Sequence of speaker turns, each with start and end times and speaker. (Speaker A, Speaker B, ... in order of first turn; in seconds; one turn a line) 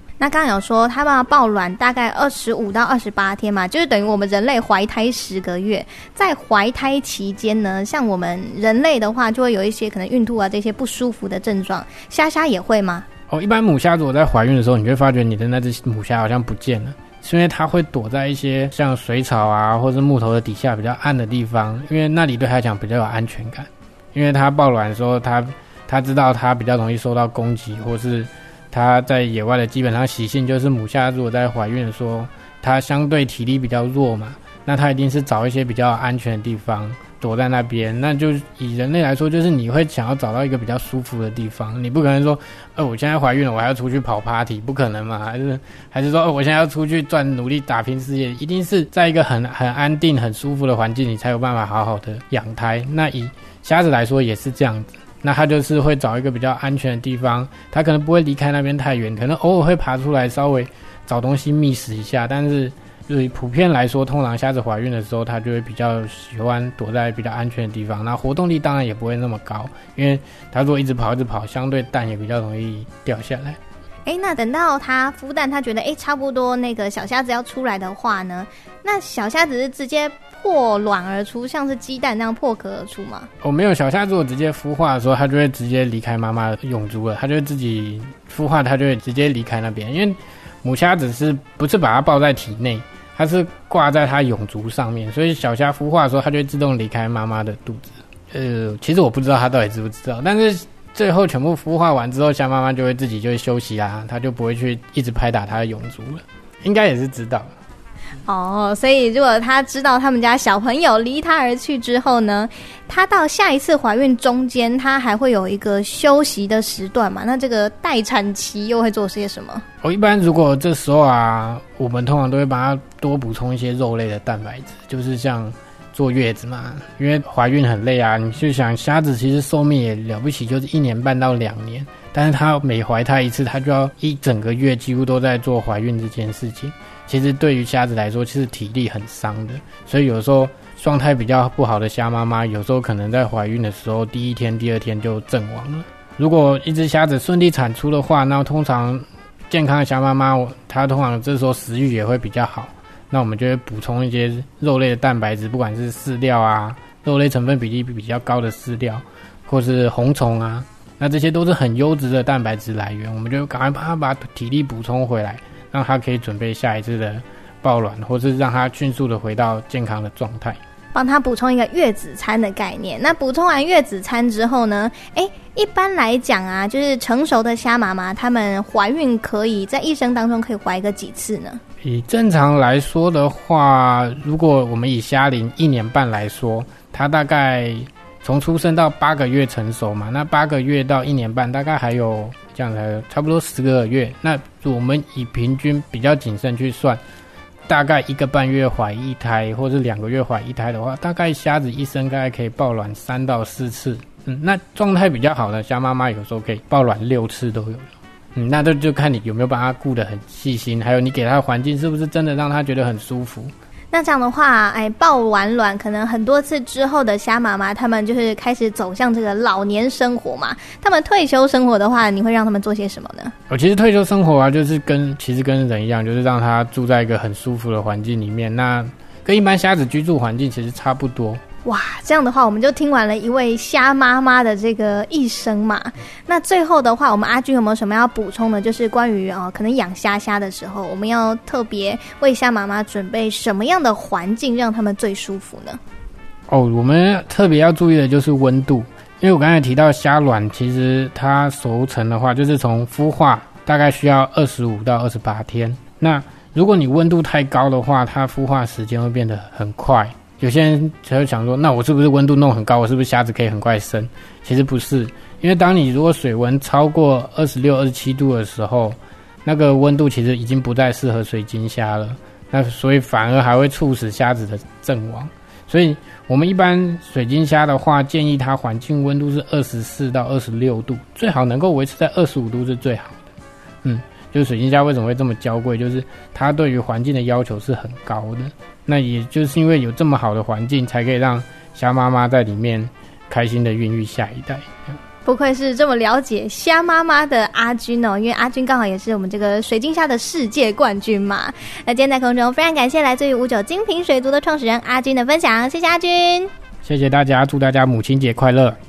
Speaker A: 0.2-13.1
Speaker B: 13.3-73.6
Speaker A: 74.0-83.3
Speaker B: 83.4-107.5
Speaker A: 108.2-119.6
Speaker B: 119.8-170.6
Speaker A: 170.9-181.6
Speaker B: 181.8-197.0
Speaker B: 197.7-213.5
Speaker A: 213.9-223.3
Speaker B: 223.5-231.4
Speaker A: 231.6-245.8
Speaker B: 246.5-283.3
Speaker B: 283.8-294.9
Speaker A: 295.2-306.5
Speaker B: 306.8-308.8